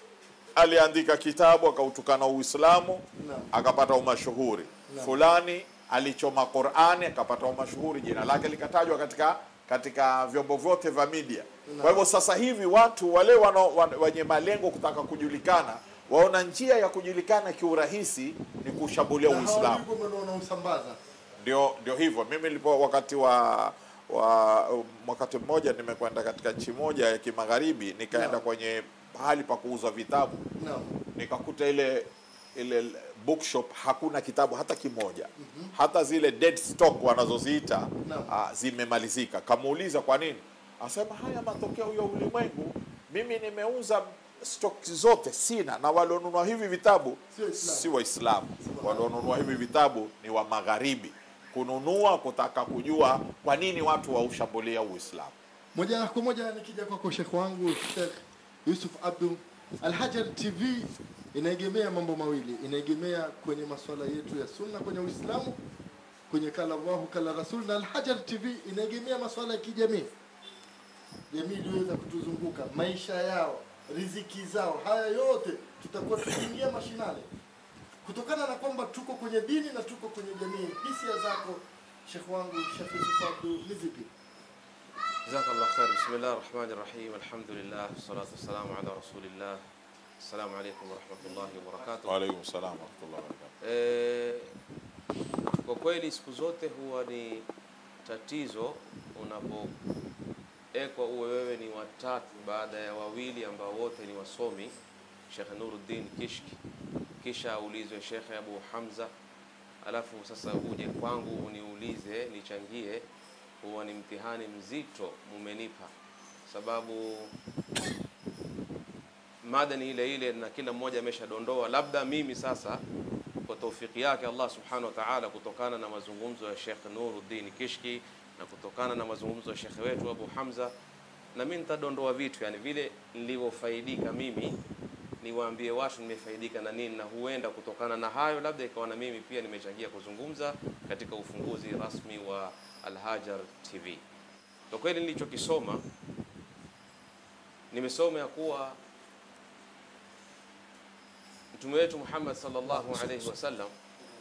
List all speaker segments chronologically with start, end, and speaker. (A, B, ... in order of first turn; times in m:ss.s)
0:00.6-0:19.8 A
0:03.2-0:03.5 B
0:04.9-0:05.2 B
0:11.6-0:12.0 B
0:19.3-0:21.0 B
0:21.4-0:30.4 A
0:28.1-0:28.4 B
0:30.6-0:31.0 B
0:31.1-0:55.3 A
0:35.4-0:35.7 B
0:38.0-0:38.3 B
0:47.3-0:47.9 B
0:48.6-0:49.1 B
0:55.7-1:05.6 B
1:06.3-1:10.1 B
1:11.3-1:17.3 B
1:18.0-1:24.1 B
1:25.2-1:29.6 C
1:30.2-1:32.2 C
1:32.0-1:33.5 A
1:33.6-1:34.5 C
1:35.5-1:37.4 C
1:38.0-1:39.7 C
1:40.7-1:44.7 C
1:45.3-1:46.6 C
1:47.2-1:49.1 C
1:49.8-1:53.0 C
1:53.6-1:55.9 C
1:56.5-1:57.3 C
1:59.4-2:02.8 C
2:03.5-2:10.7 C
2:11.3-2:14.6 C
2:15.2-2:24.0 C
2:24.7-2:25.8 C
2:27.7-2:28.8 C
2:31.5-2:33.7 C